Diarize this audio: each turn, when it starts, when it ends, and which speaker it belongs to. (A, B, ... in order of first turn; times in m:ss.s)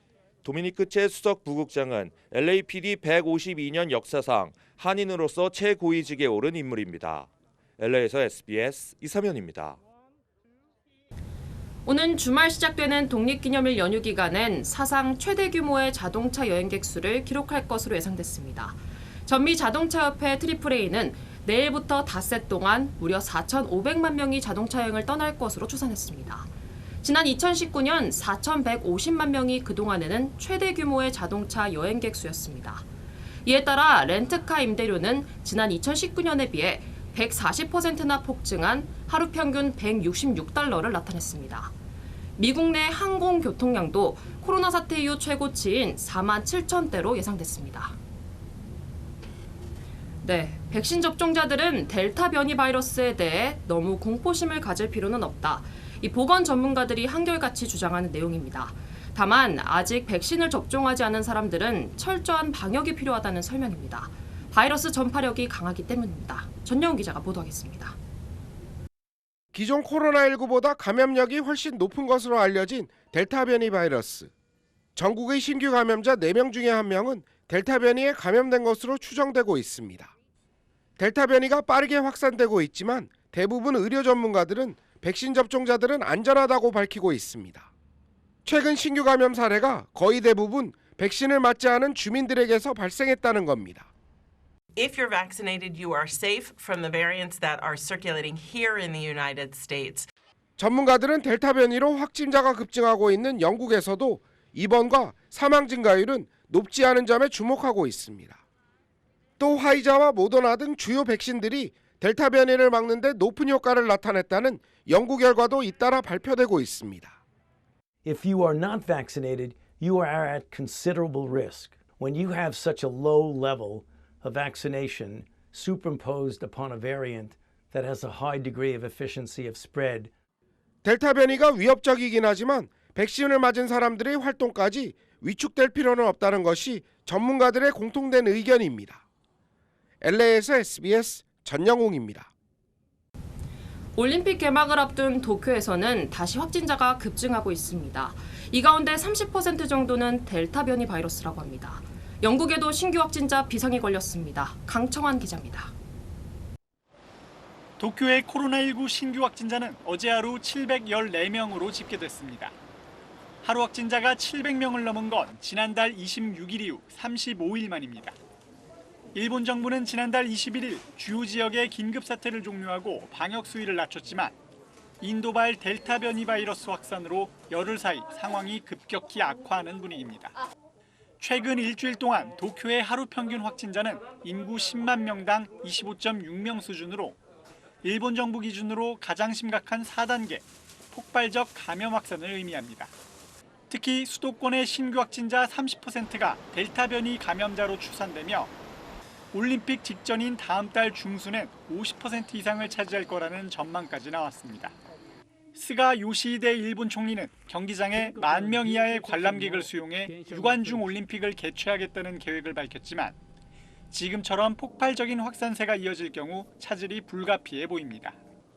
0:00.4-0:09.8 A
0:11.9-0:26.5 B
0:27.0-0:32.9 B
0:33.4-0:41.7 B
0:42.4-0:48.0 B
0:50.2-1:08.0 B
1:09.5-1:14.3 C
1:15.0-1:20.1 C
1:21.0-1:27.7 C
1:28.4-1:33.9 C
1:34.8-1:40.1 D
1:40.6-1:48.4 C
1:49.4-1:57.2 C
1:58.0-2:10.1 E
2:10.8-2:19.0 C
2:20.0-2:22.3 C
2:24.0-2:35.7 B
2:37.8-2:42.6 F
2:43.4-2:48.2 F
2:49.2-2:54.4 F
2:55.0-3:00.4 F
3:01.2-3:07.2 F
3:07.8-3:12.9 F
3:13.7-3:18.5 F
3:19.3-3:24.8 F
3:25.6-3:33.2 F
3:28.3-3:30.7 E
3:33.9-3:38.2 F